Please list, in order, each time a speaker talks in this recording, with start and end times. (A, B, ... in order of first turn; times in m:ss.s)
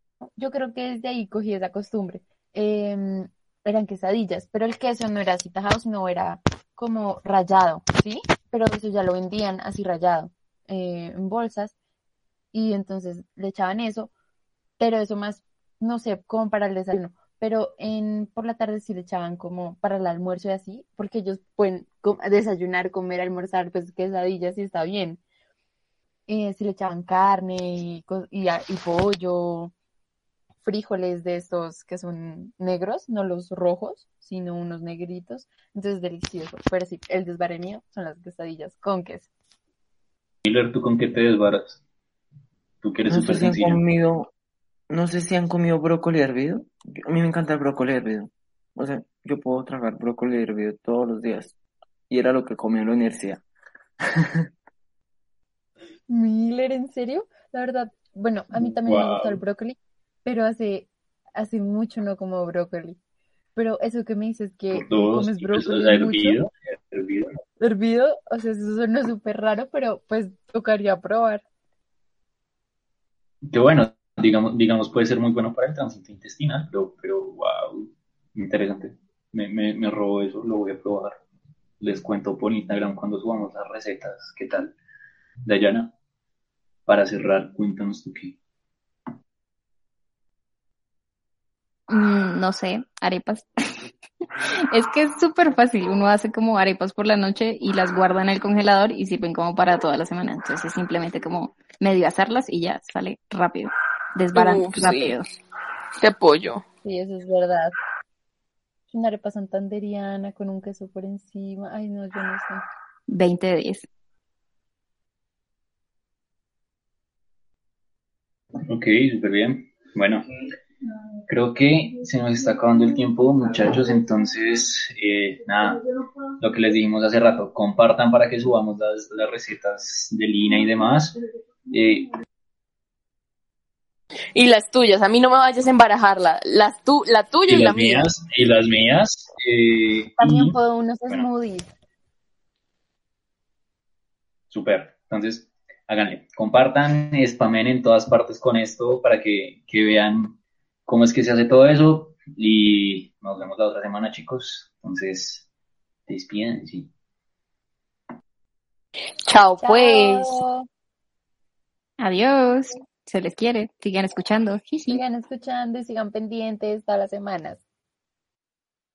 0:00.4-0:11.7 A
0:12.5-0:14.1 A
0:14.8-0:25.2 A
0:26.3-0:29.7 A
0:30.6-0:39.3 A
0:40.4-0:41.8 B
0:42.8-0:43.8 B
0:43.1-0:44.3 C
0:44.9-0:51.5 C
0:52.1-0:53.4 C
0:56.1-1:03.0 A
0:58.6-0:59.4 B
1:03.5-1:06.4 A
1:04.7-1:07.4 B
1:07.6-1:11.4 A
1:13.4-1:21.2 B
1:21.8-1:24.7 B
1:25.4-1:25.9 B
1:26.8-1:28.4 B
1:31.9-1:33.9 D
1:34.7-1:45.3 D
1:44.3-1:45.2 E
1:46.0-1:46.6 E
1:46.8-1:47.7 A
1:48.9-1:52.6 A
1:53.1-1:53.8 D
1:58.6-2:00.2 B
2:01.3-2:05.8 B
2:06.4-2:11.2 B
2:11.7-2:12.1 B
2:14.3-2:18.1 E
2:17.5-2:20.5 B
2:20.2-2:21.7 A
2:24.5-2:35.4 B
2:36.1-2:36.9 B
2:39.2-2:40.4 E
2:39.6-2:40.7 A
2:42.0-2:45.0 D
2:44.9-2:47.6 A